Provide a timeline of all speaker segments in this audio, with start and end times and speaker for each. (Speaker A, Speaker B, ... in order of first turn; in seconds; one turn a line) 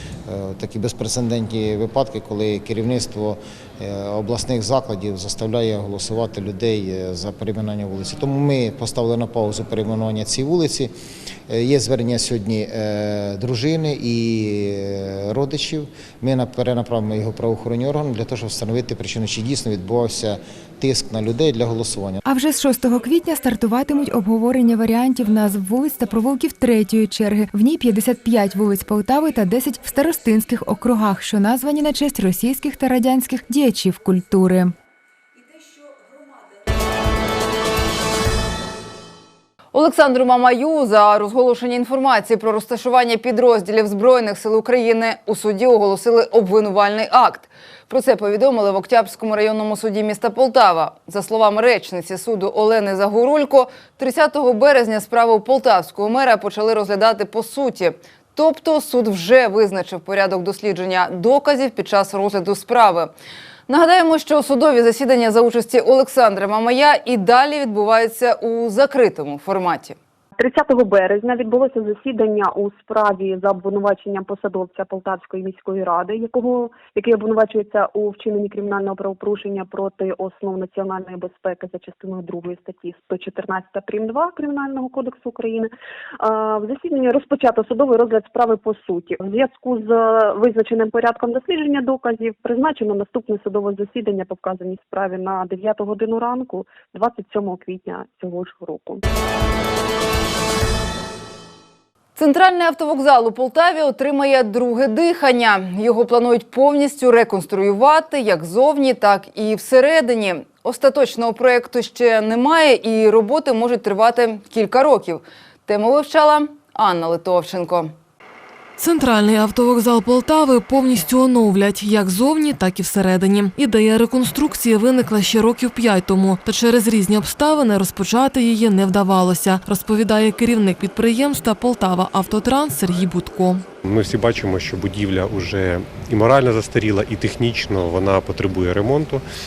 Speaker A: 0.3-10.9
Speaker A: 11.5-22.2
Speaker B: 22.2-34.7
Speaker C: 39.7-63.1
Speaker C: 63.7-70.0
Speaker D: 70.4-85.7
Speaker D: 86.2-99.0
Speaker C: 102.2-117.9
Speaker E: 118.8-133.7
Speaker F: 133.8-139.2